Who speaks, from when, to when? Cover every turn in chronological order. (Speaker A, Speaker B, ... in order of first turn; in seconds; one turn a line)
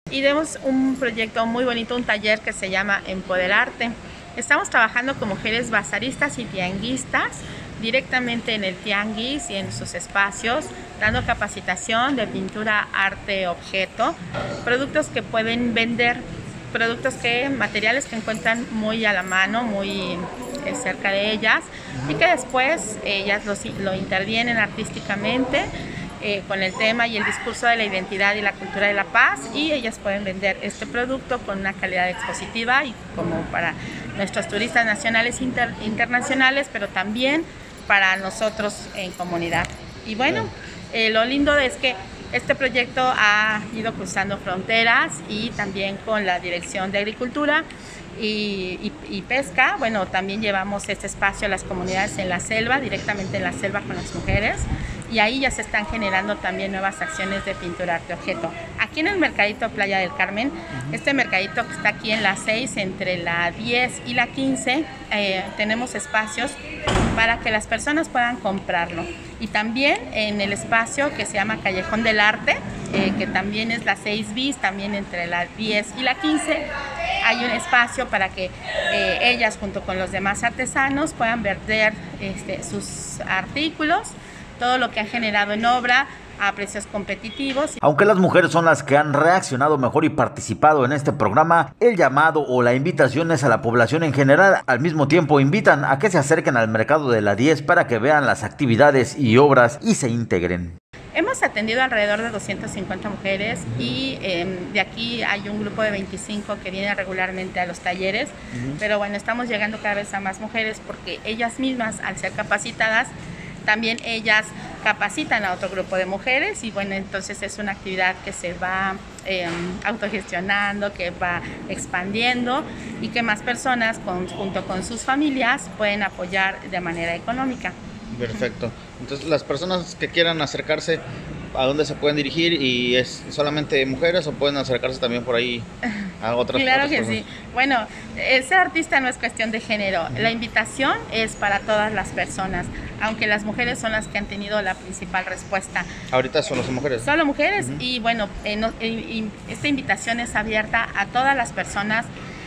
Speaker A: 0.1-66.6
Speaker A: 67.1-76.7
Speaker A: 77.2-87.8
Speaker B: 87.8-100.8
Speaker A: 101.2-113.1
Speaker A: 113.7-127.8
Speaker C: 128.1-131.0
Speaker C: 131.6-135.7
Speaker C: 136.2-137.2
Speaker A: 136.5-145.9
Speaker C: 146.1-147.1
Speaker A: 147.0-152.1